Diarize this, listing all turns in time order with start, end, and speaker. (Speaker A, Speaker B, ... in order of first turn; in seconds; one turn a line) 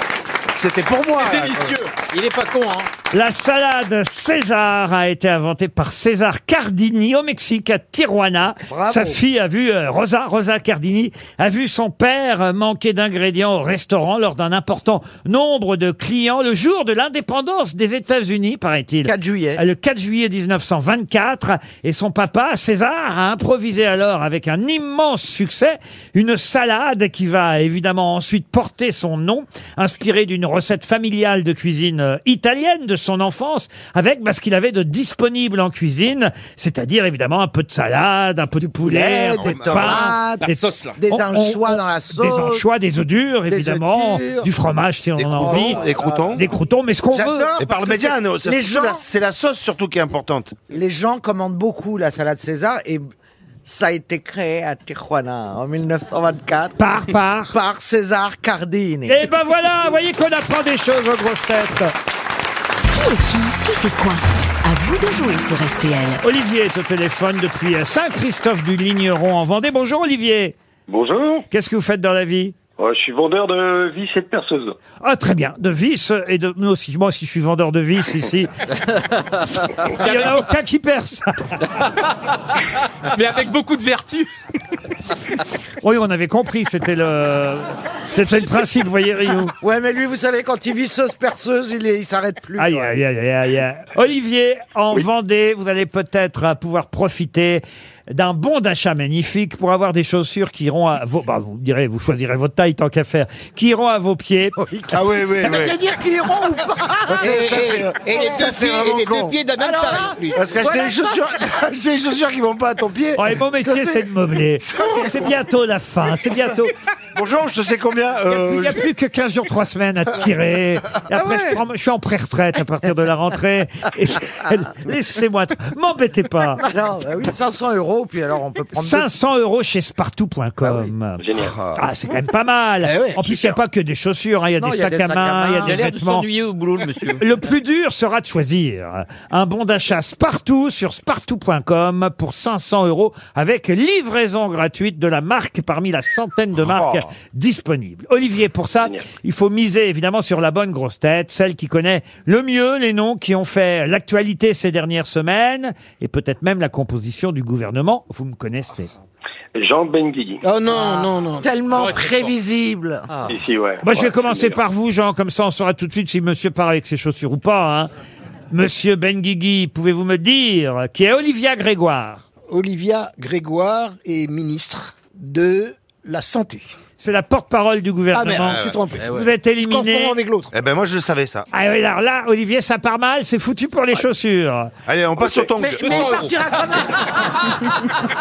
Speaker A: 0.6-1.8
Speaker B: 1.2-1.9
Speaker C: 2.0-2.9
Speaker D: 3.1-47.5
Speaker E: 8.7-9.2
Speaker E: 19.0-19.6
Speaker E: 38.8-42.6
Speaker A: 39.4-40.1
Speaker B: 40.4-41.0
Speaker E: 43.5-44.5
Speaker A: 45.2-46.4
Speaker E: 45.4-46.4
Speaker E: 47.1-49.0
Speaker A: 47.6-50.5
Speaker E: 50.7-53.0
Speaker E: 53.6-56.8
Speaker D: 56.8-57.5
Speaker E: 57.5-59.2
Speaker D: 59.0-61.9
Speaker F: 62.9-66.2
Speaker D: 66.2-70.5
Speaker G: 70.9-71.5
Speaker D: 71.5-72.5
Speaker G: 72.8-74.8
Speaker D: 75.0-78.5
Speaker D: 79.8-81.7
Speaker B: 80.0-80.4
Speaker B: 83.1-84.3
Speaker D: 85.8-89.5
Speaker E: 89.6-92.9
Speaker D: 92.6-104.6
Speaker E: 104.6-108.5
Speaker A: 104.9-105.8
Speaker A: 107.1-109.3
Speaker H: 107.2-110.6
Speaker E: 109.6-111.2
Speaker A: 110.3-113.2
Speaker D: 113.2-116.7
Speaker E: 113.6-114.0
Speaker A: 114.7-115.0
Speaker A: 117.1-118.8
Speaker D: 118.3-126.6
Speaker E: 121.1-121.6
Speaker E: 126.6-129.1
Speaker D: 128.7-136.2
Speaker E: 130.6-130.9
Speaker G: 131.2-131.5
Speaker A: 131.4-131.8
Speaker H: 132.8-133.3
Speaker E: 134.6-135.8
Speaker C: 135.6-137.2
Speaker D: 137.2-158.9
Speaker A: 146.6-147.0
Speaker G: 159.5-160.4
Speaker H: 160.4-161.5
Speaker E: 160.7-163.1
Speaker B: 161.8-162.3
Speaker G: 163.3-164.6
Speaker D: 163.8-167.9
Speaker D: 168.5-172.2
Speaker H: 172.5-176.7
Speaker D: 177.0-180.2
Speaker H: 178.1-180.5
Speaker A: 178.4-178.8
Speaker A: 180.5-181.5
Speaker D: 181.5-184.7
Speaker A: 184.8-186.3
Speaker G: 185.2-185.6
Speaker E: 185.6-187.5
Speaker B: 185.8-186.4